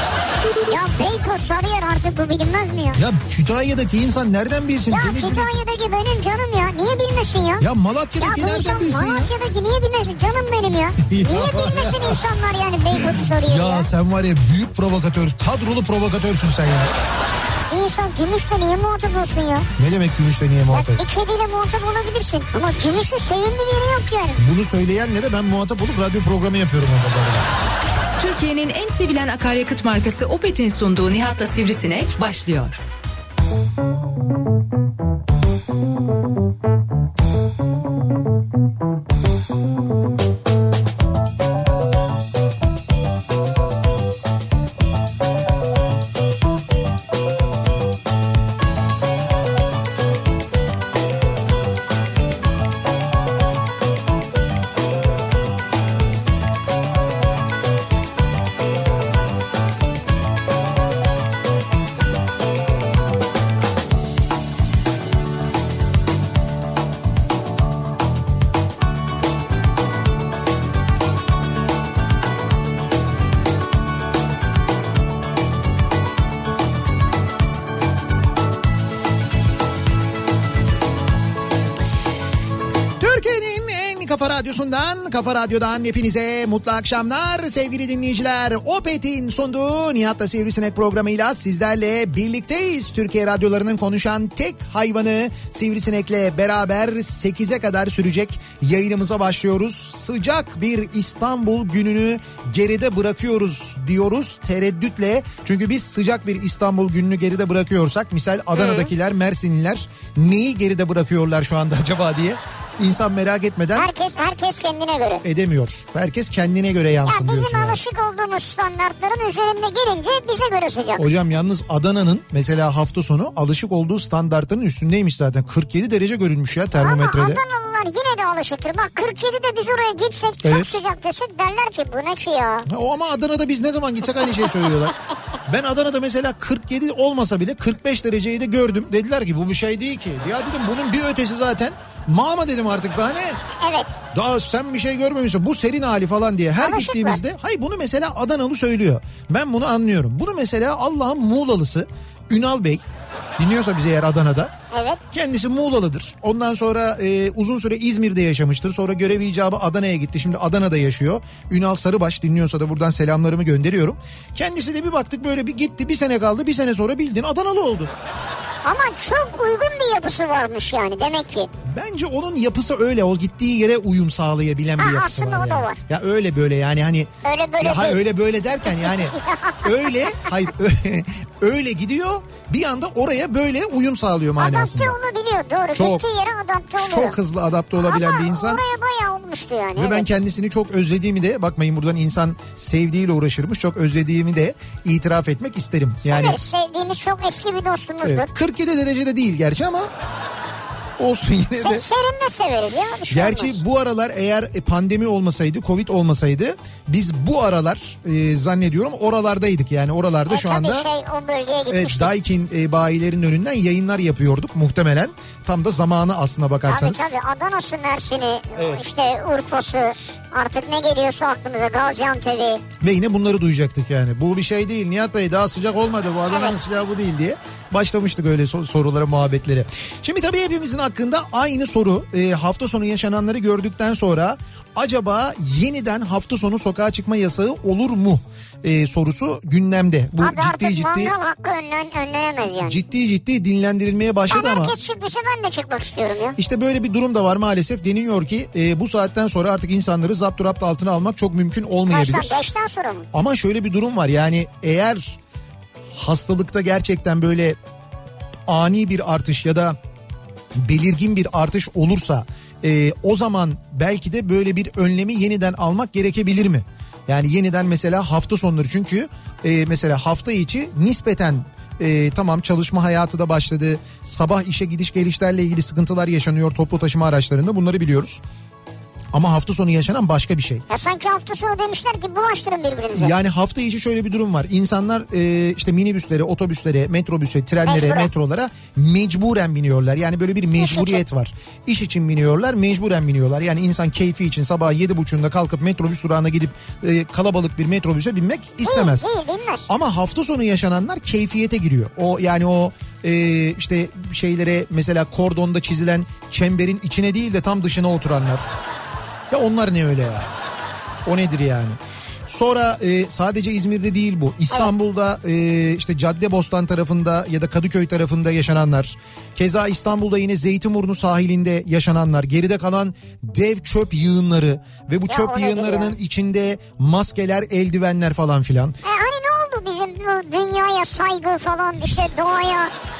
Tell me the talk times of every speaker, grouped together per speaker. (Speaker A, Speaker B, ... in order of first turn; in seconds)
Speaker A: 0.6-3.0, 4.9-7.6, 8.2-13.9, 17.7-19.7, 20.7-24.4, 108.5-108.9, 113.8-115.2, 117.1-121.0, 126.8-132.7, 134.2-134.7, 143.6-143.9, 146.6-147.2, 154.7-155.0, 168.6-171.5, 174.8-175.8, 177.2-178.0, 178.7-180.3, 184.4-187.2, 187.8-190.1, 196.0-198.3, 201.6-203.6, 210.3-212.1, 216.7-222.6, 226.3-226.6, 240.2-242.8, 244.3-246.3, 251.9-253.1, 280.7-283.1, 287.6-288.1, 290.6-291.0, 298.6-299.7, 325.1-325.9, 328.8-332.7
Speaker B: 3.0-5.6, 7.6-9.3, 11.0-12.2, 12.9-16.9, 19.8-21.0, 24.4-27.5, 83.0-113.9, 115.2-117.8, 121.0-127.4, 130.4-130.8, 132.7-134.9, 135.5-143.4, 144.1-152.8, 153.4-154.5, 155.1-167.9, 171.7-184.9, 185.7-186.0, 186.8-188.6, 189.8-196.4, 198.0-199.9, 201.0-201.8, 203.1-210.9, 211.7-217.1, 222.8-241.1, 242.6-244.8, 246.4-252.4, 253.1-255.2, 255.9-257.6, 258.5-259.8, 260.6-278.2, 279.1-280.6, 282.9-299.1, 299.7-308.5, 309.3-310.3, 311.0-328.8
Speaker C: 28.2-32.8